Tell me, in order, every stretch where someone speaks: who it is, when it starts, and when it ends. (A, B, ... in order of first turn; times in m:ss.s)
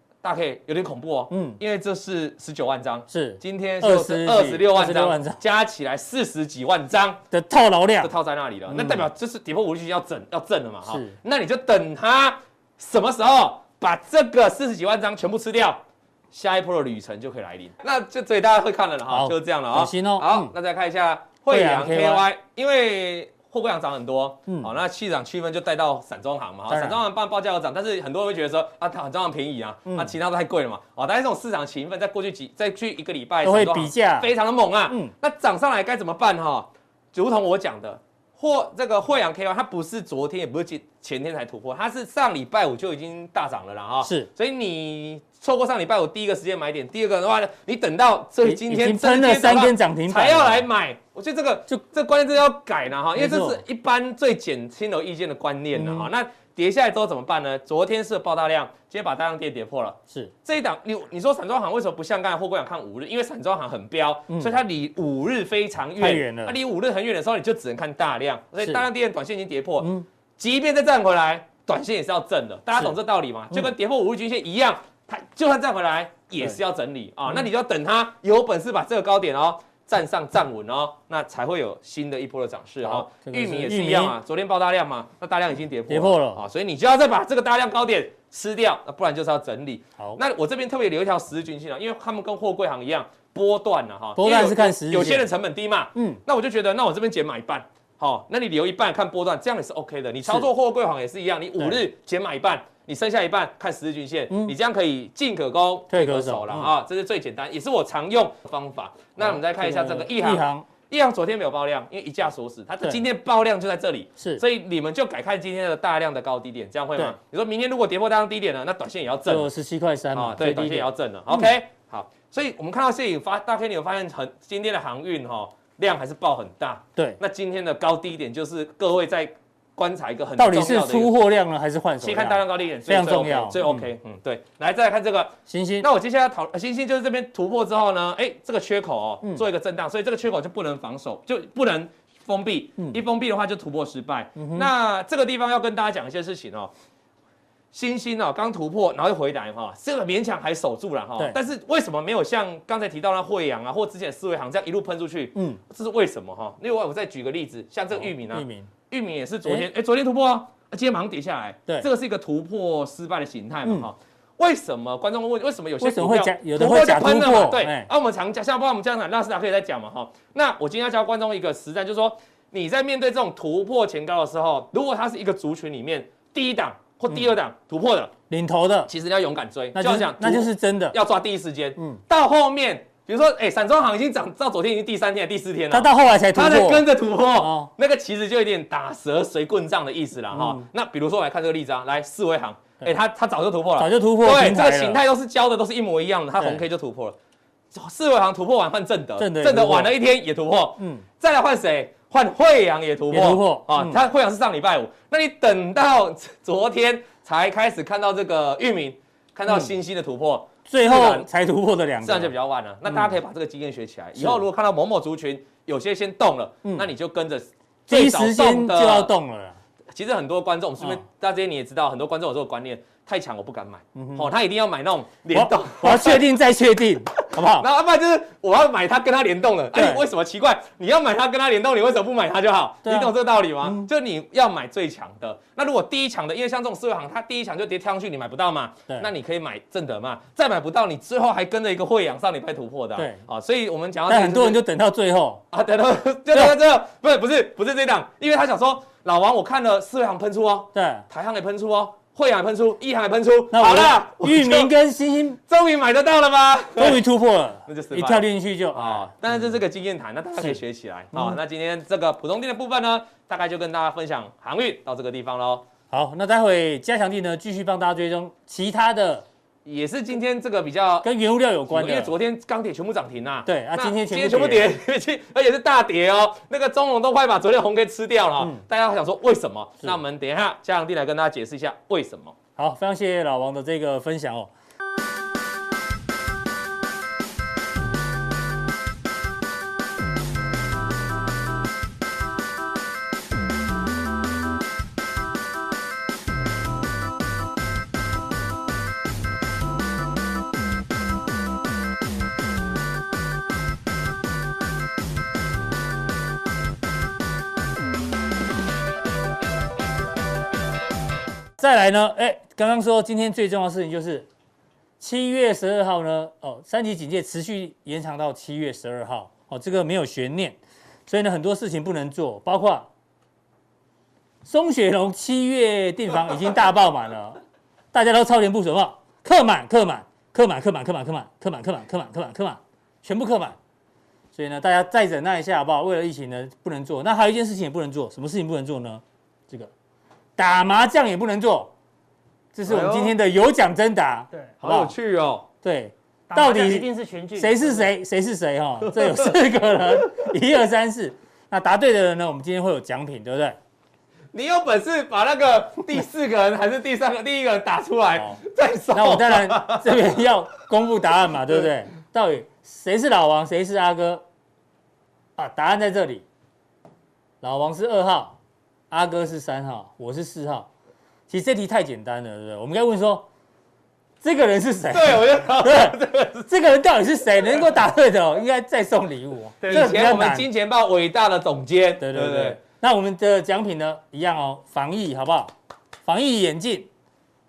0:00.2-0:07.2 A
0:01.3-0:01.6 B
0:03.1-0:05.4 B
0:07.3-0:08.1 B
0:08.0-1:59.5 A
0:08.7-0:09.0 B
0:10.9-0:11.2 B
0:19.1-0:20.5 B
0:21.5-0:22.2 B
0:26.7-0:27.0 B
0:29.9-0:30.1 B
0:33.4-0:34.3 B
0:44.0-0:44.3 B
0:48.4-0:50.6 B
0:53.2-0:53.6 B
0:55.8-0:56.1 B
1:06.0-1:06.6 B
1:09.8-1:10.1 B
1:22.8-1:24.2 B
1:25.9-1:26.4 B
1:34.2-1:35.3 B
1:36.0-1:36.2 B
1:45.9-1:46.7 B
1:49.2-1:50.7 B
1:59.3-2:01.5 B
2:00.1-2:11.1 A
2:10.4-2:13.9 B
2:12.0-2:26.7 A
2:15.5-2:15.9 B
2:24.4-2:24.7 B
2:27.7-2:58.1 A
2:35.4-2:35.6 B
2:38.0-2:38.7 B
2:45.8-2:47.9 B
2:58.3-2:58.9 B
2:58.9-3:17.2 A
2:59.8-3:01.0 B
3:05.7-3:07.7 B
3:10.3-3:10.6 B
3:13.8-3:15.0 B
3:16.4-3:16.6 B
3:17.7-3:31.3 A
3:19.2-3:20.0 B
3:20.8-3:21.0 B
3:23.1-3:24.0 B
3:30.7-3:32.3 B
3:32.0-3:39.1 A
3:34.2-3:34.4 B
3:37.9-3:39.6 B
3:39.9-3:46.2 A
3:44.0-3:44.3 B
3:45.3-3:47.7 B
3:47.4-4:04.6 A
3:49.7-3:50.0 B
3:52.8-3:53.1 B
4:03.0-4:03.2 B
4:04.1-4:05.4 B
4:05.5-4:14.7 A
4:10.7-4:11.1 B
4:13.5-4:15.4 B
4:15.5-4:17.0 A
4:16.8-4:19.1 B
4:17.7-4:25.6 A
4:25.9-4:29.2 B
4:29.6-4:31.1 A
4:31.0-4:32.1 B
4:31.7-4:42.4 A
4:33.5-4:34.7 B
4:42.6-4:44.5 B
5:11.6-5:14.3 B
5:15.0-5:22.9 B
5:24.4-5:27.4 B
5:27.9-5:33.6 B
5:34.3-5:39.7 B
5:40.4-5:41.7 B
5:42.5-5:44.9 B
5:42.7-5:43.2 A
5:44.6-5:45.5 A
5:45.6-5:46.9 B
5:46.3-5:47.9 C
5:47.4-5:53.6 B
5:48.8-5:49.4 A
5:54.3-6:00.0 A
5:58.9-6:04.2 B
6:05.4-6:06.2 B
6:07.4-6:08.4 B
6:08.9-6:10.7 B
6:11.3-6:13.3 B
6:14.2-6:20.5 B
6:14.9-6:16.5 A
6:19.6-6:20.0 C
6:19.7-6:22.6 A
6:22.0-6:25.5 B
6:26.0-6:26.9 B